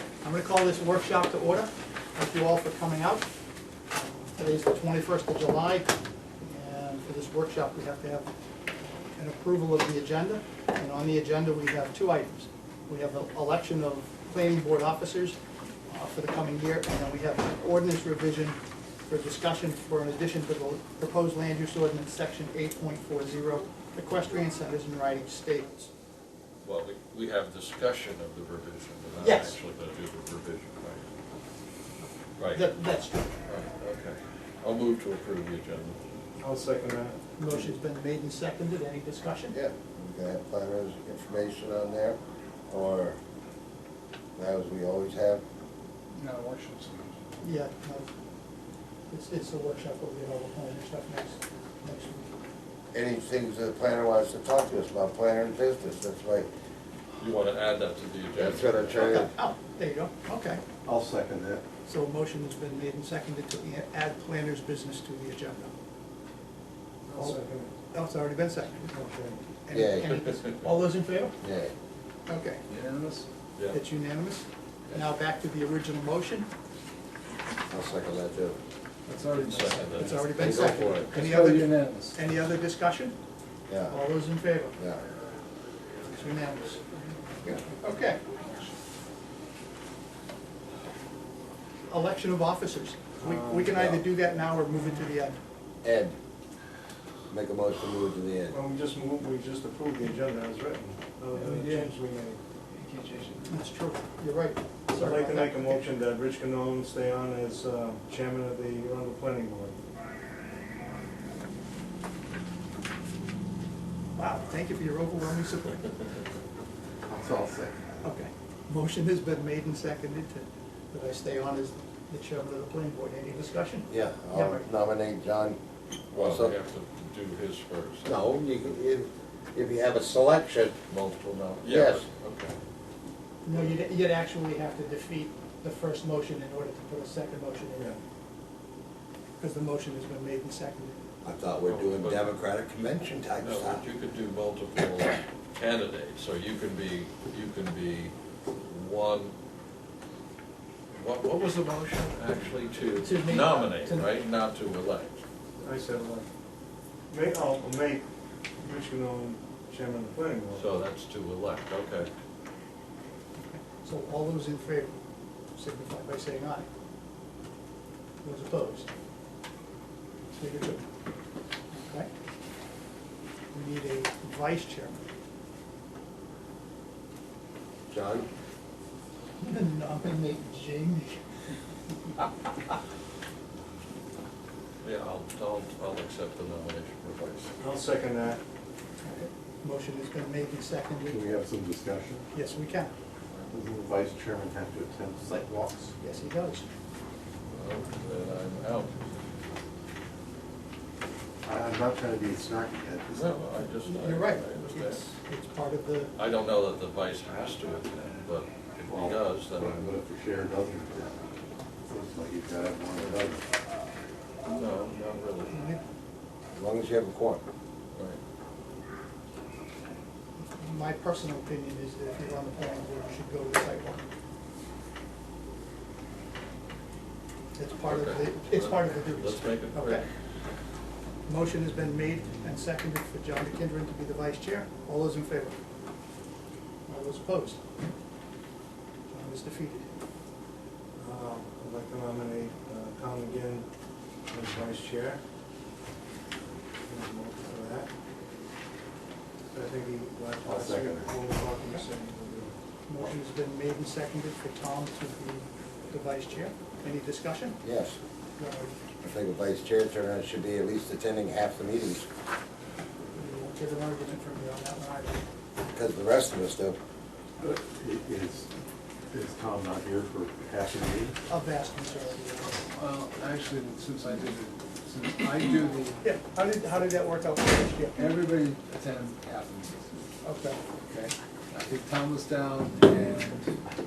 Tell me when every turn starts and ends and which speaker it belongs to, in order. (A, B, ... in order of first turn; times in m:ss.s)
0:00.2-0:03.3 A
0:03.9-0:08.3 A
0:09.1-0:15.4 A
0:15.9-0:25.9 A
0:26.6-0:31.1 B
0:29.2-0:29.6 A
0:32.4-0:32.7 B
0:32.5-0:33.3 A
0:33.5-0:36.0 B
0:36.4-0:37.2 C
0:37.4-0:39.6 A
0:39.5-0:43.2 D
0:44.4-0:45.4 D
0:46.2-0:47.2 E
0:47.4-0:48.1 A
0:49.1-0:52.3 A
0:52.9-0:56.5 D
0:57.2-0:59.1 B
0:58.4-0:59.3 D
0:59.0-1:00.6 A
1:00.8-1:01.6 F
1:01.8-1:05.7 A
1:07.1-1:07.7 C
1:07.2-1:08.9 A
1:08.9-1:09.4 C
1:09.6-1:11.4 A
1:09.7-1:10.2 D
1:10.1-1:10.7 B
1:11.4-1:11.7 D
1:12.3-1:12.6 A
1:12.7-1:13.3 E
1:13.7-1:16.5 A
1:17.7-1:18.6 D
1:19.1-1:22.2 E
1:19.3-1:20.4 B
1:19.9-1:23.1 A
1:20.4-1:21.2 D
1:23.7-1:24.0 D
1:23.9-1:24.8 A
1:26.1-1:28.2 A
1:31.9-1:35.4 A
1:33.2-1:33.7 C
1:33.7-1:34.0 D
1:35.8-1:36.2 D
1:37.3-1:38.6 D
1:38.5-1:42.4 C
1:41.3-1:42.0 E
1:42.8-1:43.6 E
1:43.5-1:45.8 A
1:44.9-1:49.8 C
1:54.2-1:55.9 A
1:57.1-1:57.8 F
1:58.0-2:04.6 A
2:03.9-2:05.6 D
2:06.1-2:08.4 B
2:06.1-2:06.5 D
2:08.0-2:10.7 D
2:10.9-2:12.6 B
2:11.6-2:12.0 D
2:13.4-2:18.0 A
2:19.4-2:21.0 A
2:21.2-2:23.8 D
2:21.6-2:22.3 B
2:23.4-2:28.1 B
2:28.6-2:29.3 B
2:30.9-2:35.2 B
2:33.0-2:34.2 A
2:35.6-2:36.3 C
2:37.1-2:38.0 C
2:38.6-2:40.7 C
2:40.6-2:42.1 B
2:43.4-2:44.9 A
2:45.5-2:46.7 A
2:48.2-2:48.9 A
2:50.3-2:50.8 A
2:51.7-2:52.1 A
2:53.5-2:55.0 A
2:57.9-2:58.3 D
2:59.4-3:01.2 A
3:04.8-3:07.5 B
3:07.6-3:08.4 C
3:09.0-3:11.4 A
3:11.1-3:12.2 F
3:12.3-3:12.9 A
3:13.5-3:15.9 F
3:16.0-3:16.6 A
3:17.5-3:19.0 B
3:21.4-3:23.4 F
3:23.1-3:25.0 B
3:23.8-3:26.1 A
3:26.1-3:30.0 B
3:28.8-3:31.2 F
3:31.8-3:33.4 F
3:33.0-3:33.3 B
3:34.4-3:35.5 B
3:35.5-3:35.8 A
3:36.5-3:37.4 D
3:40.4-3:44.1 A
3:47.6-3:50.0 A
3:47.8-3:50.0 B
3:51.3-3:55.6 A
3:56.9-3:57.6 A
3:59.1-3:59.9 A
4:01.0-4:03.6 C
4:04.3-4:05.2 C
4:06.8-4:07.9 C
4:09.5-4:12.5 C
4:10.4-4:11.1 F
4:12.9-4:17.6 A
4:17.6-4:18.0 D
4:18.4-4:18.7 A
4:19.0-4:22.1 D
4:23.1-4:25.2 A
4:25.7-4:26.8 D
4:27.4-4:28.5 F
4:29.1-4:31.2 F
4:31.3-4:32.7 A
4:32.7-4:36.0 E
4:36.0-4:38.1 A
4:38.0-4:39.9 E
4:40.2-4:40.6 A
4:40.9-4:43.5 E